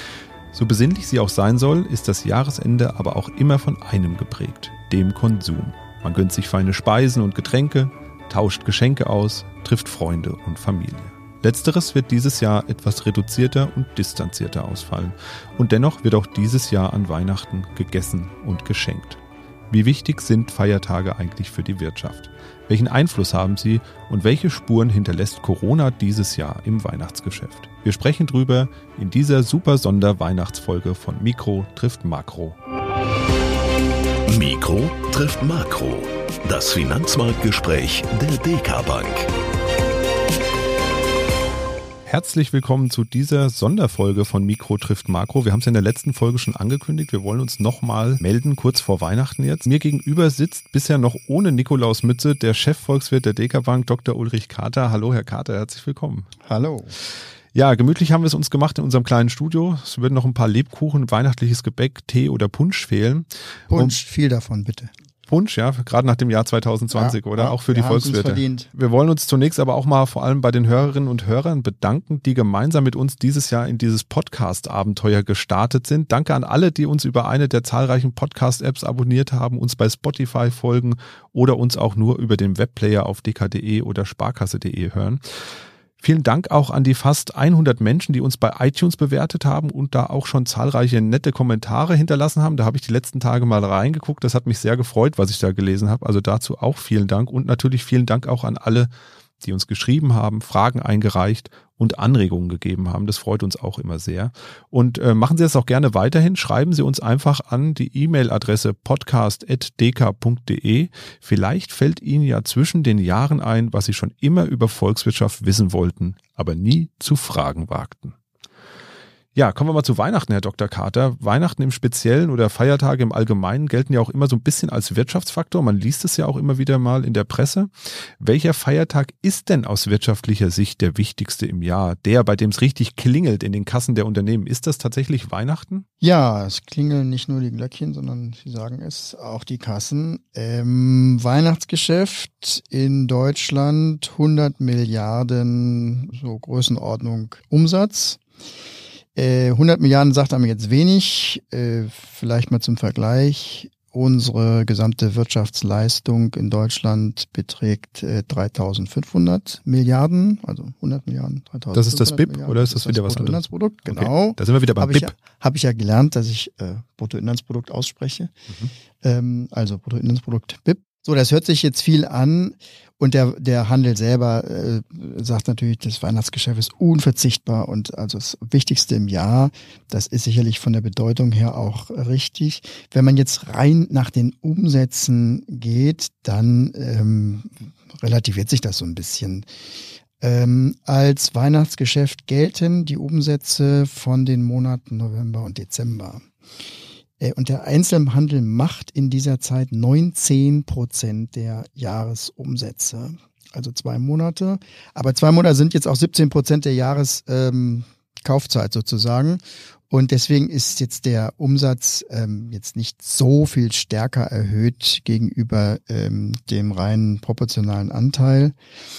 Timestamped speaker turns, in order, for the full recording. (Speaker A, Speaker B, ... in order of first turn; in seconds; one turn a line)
Speaker A: 0.5-32.6
Speaker B: 34.3-39.3
Speaker A: 42.1-56.3
Speaker C: 56.5-56.9
Speaker A: 57.5-64.0
Speaker C: 63.7-64.9
Speaker A: 65.3-85.2
Speaker C: 66.9-68.7
Speaker A: 86.0-98.9
Speaker A: 99.4-118.2
Speaker A: 119.3-135.8
Speaker C: 136.0-148.2
Speaker C: 149.2-168.3
Speaker A: 161.7-165.1
Speaker C: 169.0-189.5
Speaker C: 190.2-196.2
Speaker C: 197.2-218.6